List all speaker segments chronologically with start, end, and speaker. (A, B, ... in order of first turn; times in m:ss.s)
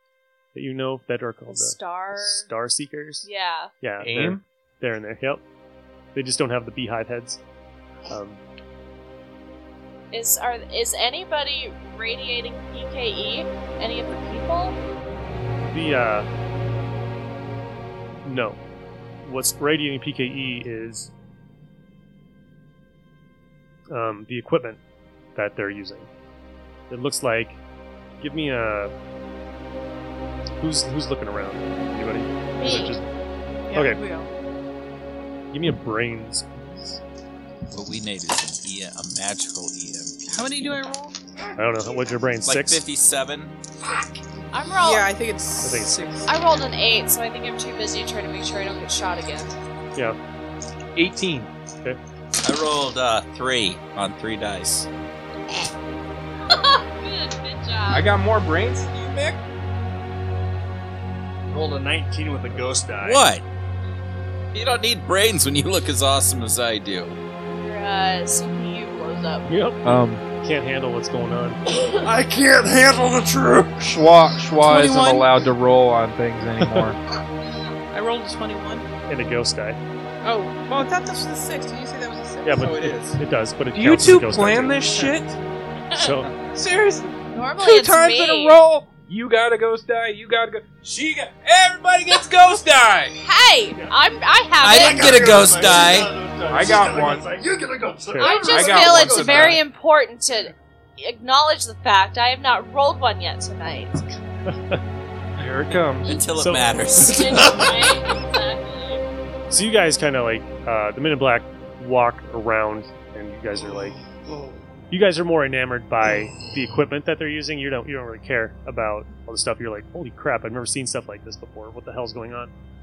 0:00.5-0:03.3 A
0:01.5-0:02.5 B
0:03.2-0:03.7 B
0:03.8-0:05.4 A
0:04.0-0:04.4 C
0:06.1-0:07.4 A
0:08.1-0:08.4 A
0:10.1-0:14.8 B
0:15.7-0:16.3 A
0:18.2-0:18.6 A
0:19.2-0:21.1 A
0:23.9-0:24.8 A
0:25.4-0:26.1 A
0:26.9-0:27.6 A
0:28.2-0:28.9 A
0:30.6-0:33.1 A
0:32.6-0:33.0 B
0:33.7-0:34.3 D
0:33.7-0:34.0 A
0:35.5-0:37.0 A
0:37.7-0:40.3 E
0:40.3-0:41.2 D
0:41.6-0:42.8 A
0:42.4-0:43.6 E
0:44.5-0:45.1 B
0:44.8-0:46.3 D
0:45.6-0:46.0 A
0:46.3-0:49.5 B
0:51.0-0:51.5 C
0:52.4-0:54.9 E
0:56.5-0:58.1 B
0:57.9-0:59.4 C
1:01.5-1:03.3 F
1:03.0-1:03.4 E
1:04.5-1:07.2 E
1:07.5-1:09.5 B
1:09.4-1:11.6 A
1:09.8-1:10.2 C
1:11.7-1:14.0 F
1:13.8-1:17.0 C
1:14.6-1:15.3 D
1:16.6-1:16.9 A
1:17.9-1:18.9 D
1:19.1-1:19.8 A
1:20.2-1:22.8 D
1:22.4-1:25.2 A
1:22.6-1:23.2 E
1:23.7-1:25.4 C
1:25.9-1:26.3 A
1:26.4-1:33.2 C
1:27.3-1:28.6 B
1:33.2-1:35.4 B
1:34.6-1:36.1 E
1:34.6-1:39.6 F
1:36.5-1:37.3 C
1:38.1-1:38.5 A
1:38.2-1:44.1 B
1:38.4-1:39.6 C
1:44.5-1:44.8 A
1:45.4-1:46.1 C
1:46.0-1:47.5 E
1:46.3-1:47.2 A
1:47.0-1:49.0 B
1:47.3-1:47.7 F
1:49.5-1:54.0 A
1:53.6-1:54.7 F
1:54.9-2:02.5 A
1:56.1-1:56.6 F